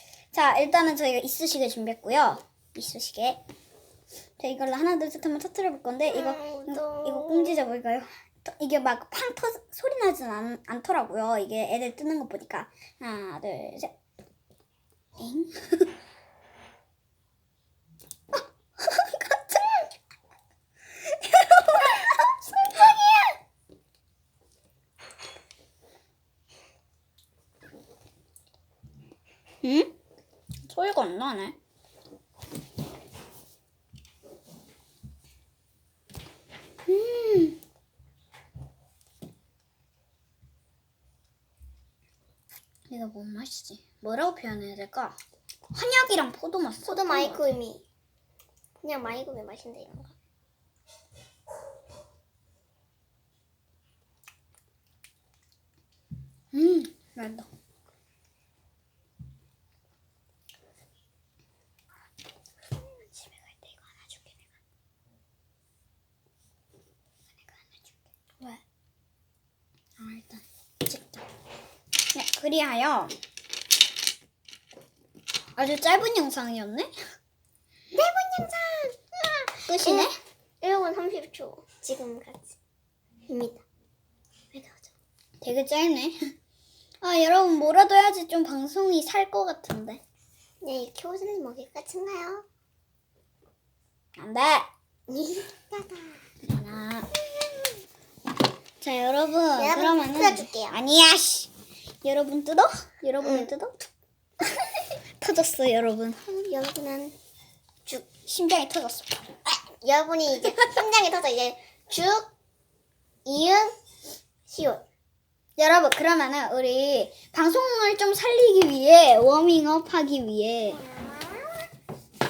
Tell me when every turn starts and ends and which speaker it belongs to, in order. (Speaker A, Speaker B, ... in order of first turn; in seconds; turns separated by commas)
Speaker A: 0.3-3.4, Speaker A: 4.4-13.9, Speaker B: 6.1-7.5, Speaker A: 15.2-15.9, Speaker A: 18.8-19.8, Speaker A: 21.1-22.7, Speaker B: 22.6-23.4, Speaker A: 29.6-29.9, Speaker A: 30.7-31.6, Speaker A: 36.9-37.6, Speaker A: 42.9-45.2, Speaker A: 45.7-47.5, Speaker B: 46.9-47.8, Speaker B: 48.8-50.1, Speaker A: 56.5-57.5, Speaker A: 62.8-64.4, Speaker A: 67.5-68.6, Speaker A: 70.0-71.2, Speaker A: 72.1-73.2, Speaker A: 75.6-76.9, Speaker B: 77.9-80.1, Speaker A: 79.7-80.2, Speaker B: 80.6-82.6, Speaker B: 83.3-83.6, Speaker B: 84.5-84.9, Speaker A: 85.4-86.2, Speaker A: 87.0-90.0, Speaker B: 90.6-92.5, Speaker A: 94.2-94.7, Speaker B: 95.1-96.2, Speaker A: 96.4-97.1, Speaker A: 98.8-101.5, Speaker B: 99.6-100.8, Speaker A: 102.0-103.9, Speaker B: 103.2-103.5, Speaker A: 105.2-106.2, Speaker B: 106.3-107.2, Speaker A: 108.3-109.3, Speaker B: 109.5-112.3, Speaker B: 113.2-113.8, Speaker B: 114.5-114.8, Speaker A: 115.6-120.8, Speaker B: 120.7-121.7